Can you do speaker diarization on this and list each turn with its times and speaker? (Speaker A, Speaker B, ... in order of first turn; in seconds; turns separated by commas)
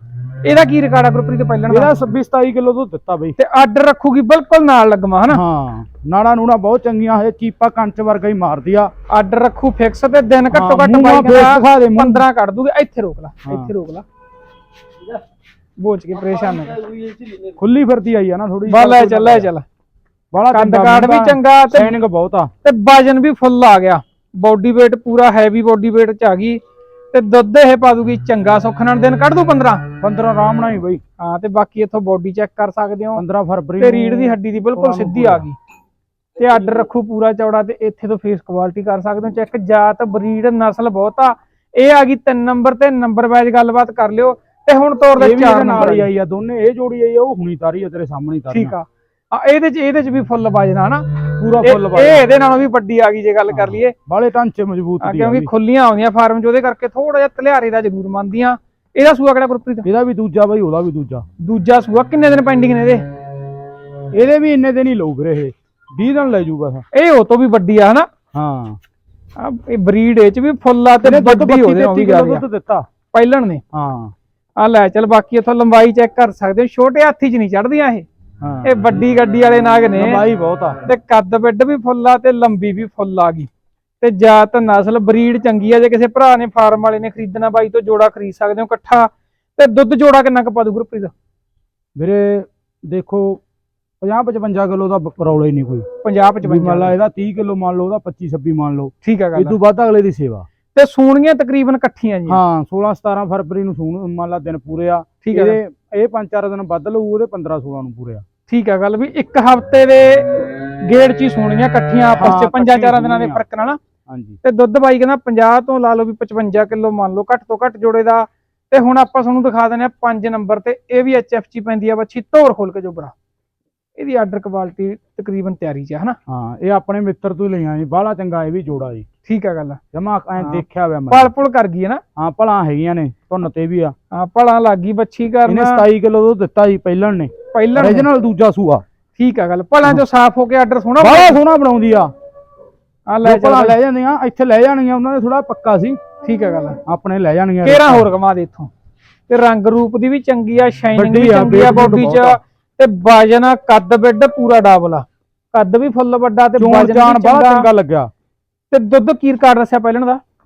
Speaker A: 0.4-1.9, Speaker B: 1.7-3.4, Speaker A: 3.4-5.4, Speaker B: 5.3-8.9, Speaker A: 9.1-14.0, Speaker B: 10.5-12.2, Speaker B: 13.4-13.7, Speaker A: 15.8-16.9, Speaker B: 17.4-19.5, Speaker A: 18.7-19.6, Speaker B: 20.3-22.5, Speaker A: 20.5-21.9, Speaker A: 22.6-26.6, Speaker A: 27.1-29.8, Speaker B: 30.0-31.0, Speaker A: 31.2-33.2, Speaker B: 33.1-35.4, Speaker A: 33.8-35.5, Speaker A: 36.4-46.1, Speaker B: 45.2-48.7, Speaker A: 48.5-53.9, Speaker B: 51.4-52.2, Speaker B: 53.5-55.5, Speaker A: 55.0-59.9, Speaker B: 59.8-61.2, Speaker A: 61.4-63.0, Speaker B: 64.1-66.8, Speaker A: 66.9-68.1, Speaker B: 68.3-68.8, Speaker A: 69.4-72.4, Speaker B: 71.0-72.8, Speaker A: 73.1-73.6, Speaker B: 73.7-74.1, Speaker A: 74.6-78.0, Speaker B: 78.4-78.7, Speaker A: 78.6-80.2, Speaker B: 79.9-80.8, Speaker A: 80.8-83.5, Speaker A: 84.0-91.1, Speaker B: 92.0-93.4, Speaker B: 94.0-95.8, Speaker A: 96.0-97.0, Speaker B: 96.4-100.5, Speaker A: 99.0-99.6, Speaker A: 100.7-102.4, Speaker B: 102.3-108.2, Speaker A: 105.2-105.6, Speaker A: 108.5-113.8, Speaker B: 112.1-113.4, Speaker B: 114.1-114.4, Speaker A: 114.4-123.1, Speaker A: 124.0-126.2, Speaker B: 126.3-129.1, Speaker A: 129.2-129.8, Speaker B: 129.9-131.3, Speaker A: 130.4-132.0, Speaker B: 132.2-133.9, Speaker A: 134.1-135.8, Speaker B: 135.4-138.8, Speaker A: 137.5-138.1, Speaker A: 139.2-141.4, Speaker B: 141.0-142.1, Speaker A: 143.1-143.8, Speaker B: 143.2-146.0, Speaker A: 146.2-146.8, Speaker B: 146.8-148.1, Speaker A: 147.6-148.7, Speaker A: 149.3-157.7, Speaker B: 150.9-152.4, Speaker B: 156.6-158.1, Speaker A: 158.7-160.2